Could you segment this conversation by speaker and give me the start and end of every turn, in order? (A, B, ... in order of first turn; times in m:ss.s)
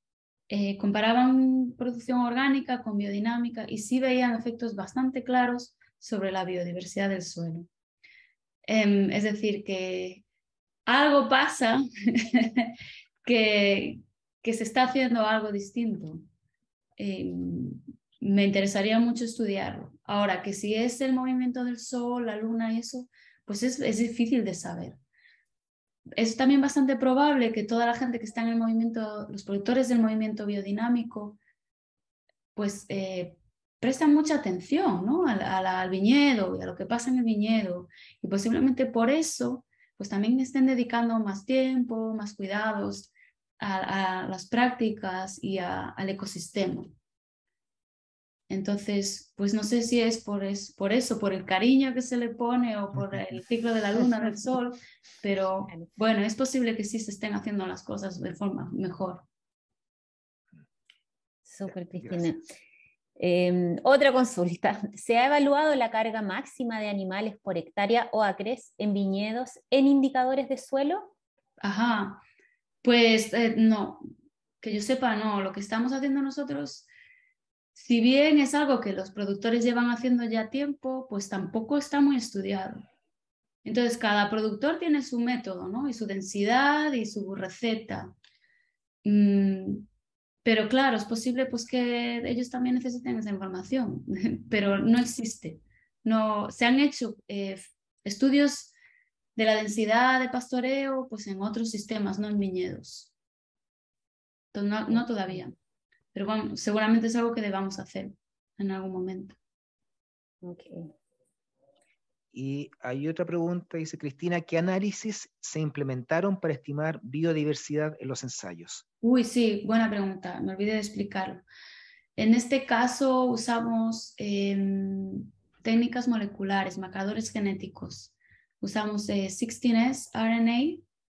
0:00.5-0:07.7 A
0:08.6-0:10.2 A
0:10.9-0:16.2 A
0:17.0-0:25.0 A
0:26.2-0:31.4 A
0:32.5-0:46.9 A
0:48.5-0:59.2 A
0:54.2-0:54.5 B
1:01.5-1:02.4 B
1:02.0-1:02.3 C
1:03.2-1:11.1 B
1:11.6-1:12.2 A
1:12.8-1:14.0 A
1:14.6-1:16.9 A
1:17.7-1:22.8 A
1:23.6-1:28.1 A
1:29.0-1:29.8 A
1:30.4-1:38.7 A
1:39.4-1:43.1 A
1:44.5-1:45.5 A
1:45.0-1:45.3 B
1:46.1-1:49.4 A
1:50.4-1:50.9 B
1:52.3-1:58.8 C
1:59.0-2:01.4 A
2:02.2-2:10.8 A